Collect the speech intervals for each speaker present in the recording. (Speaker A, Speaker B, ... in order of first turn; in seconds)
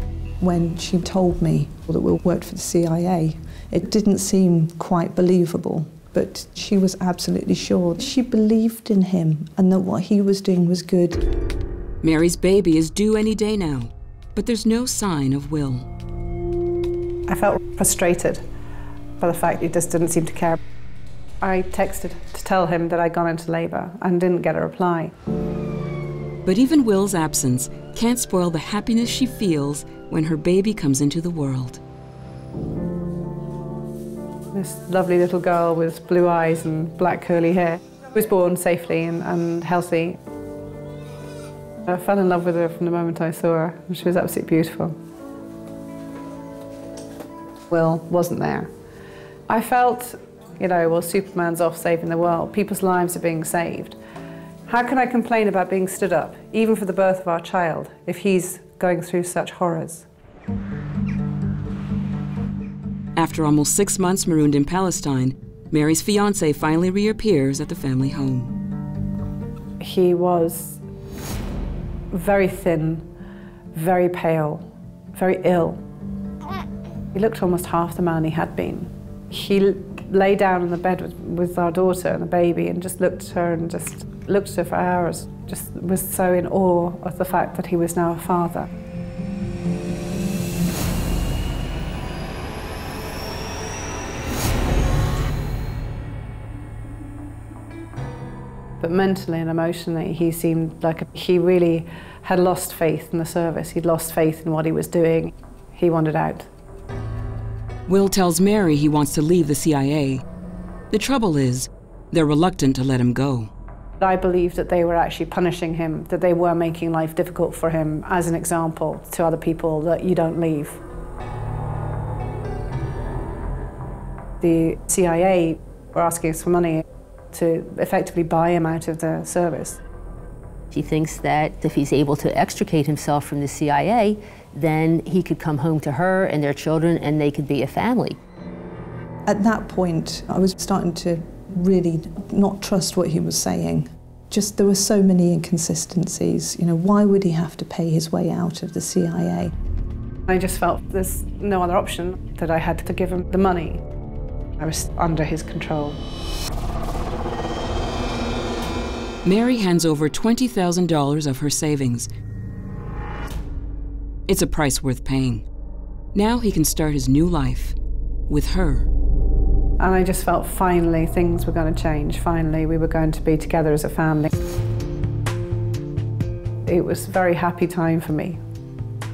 Speaker A: 0.4-11.2, 139.3-149.5
Speaker B: 12.0-15.9, 26.4-31.8, 63.1-68.5, 107.9-110.2, 110.9-113.5, 159.2-162.1, 164.3-165.4, 166.1-167.8, 168.3-168.9
Speaker C: 17.3-18.4, 19.2-20.6, 21.4-25.1, 34.5-40.2, 41.9-45.0, 47.7-48.7, 49.5-54.0, 54.7-60.0, 69.8-70.8, 72.1-73.1, 73.7-75.8, 77.1-88.7, 98.8-106.5, 114.0-120.8, 124.4-129.8, 150.3-153.8, 154.6-156.0, 169.8-174.3, 176.7-178.4
Speaker D: 130.7-138.2